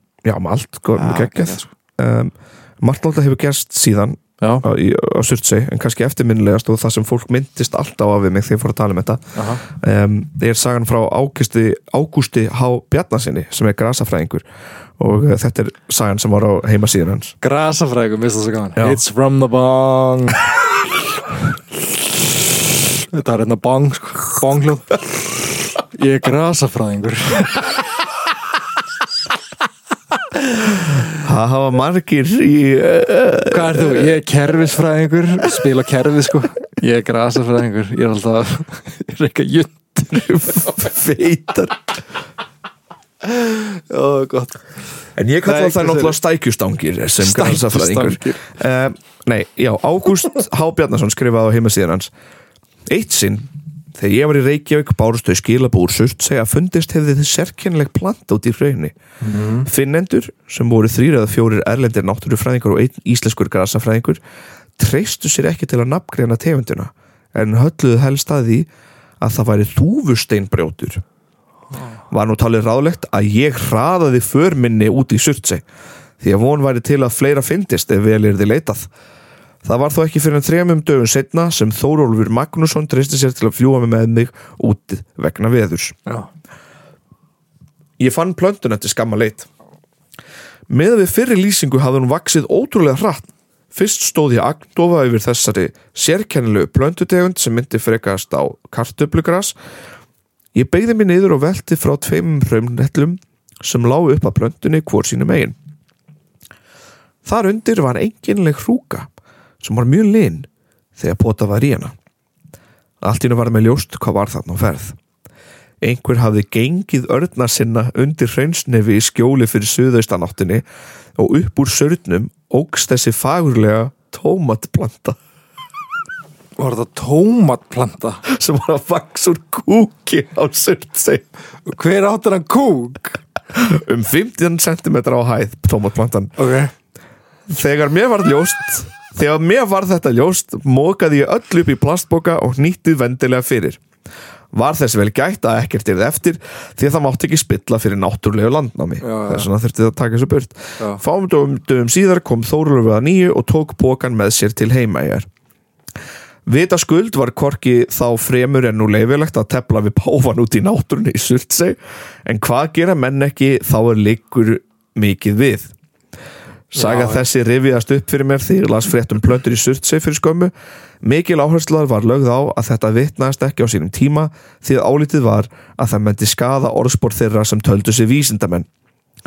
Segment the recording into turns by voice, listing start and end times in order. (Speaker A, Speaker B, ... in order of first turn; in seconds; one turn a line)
Speaker A: 0.2-14.4
Speaker B: 0.9-1.7
Speaker B: 4.4-4.6
Speaker B: 9.3-9.6
Speaker A: 15.0-17.4
Speaker B: 17.4-21.4
Speaker A: 18.8-19.0
Speaker B: 21.9-27.9
Speaker B: 30.6-31.0
Speaker A: 31.1-34.2
Speaker B: 33.5-40.7
Speaker A: 40.1-41.8
Speaker B: 43.2-44.6
Speaker A: 45.2-52.1
Speaker B: 45.4-46.1
Speaker B: 47.2-48.4
Speaker A: 52.9-58.9
Speaker B: 59.2-59.7
Speaker A: 59.6-64.2
Speaker A: 64.8-68.7
Speaker A: 69.2-71.0
Speaker A: 72.1-75.6
Speaker A: 76.2-78.9
Speaker A: 79.6-86.0
Speaker A: 88.0-89.5
Speaker A: 90.7-99.5
Speaker A: 100.5-105.5
Speaker A: 107.2-109.1
Speaker A: 109.6-111.9
Speaker A: 113.0-115.0
Speaker A: 115.8-120.6
Speaker A: 121.2-125.2
Speaker B: 126.6-128.2
Speaker A: 128.2-131.2
Speaker B: 131.7-133.2
Speaker A: 133.5-136.3
Speaker B: 136.4-136.7
Speaker A: 137.5-143.8
Speaker A: 144.5-155.2
Speaker B: 149.0-149.5
Speaker A: 156.5-165.7
Speaker A: 166.7-178.7
Speaker B: 166.8-167.2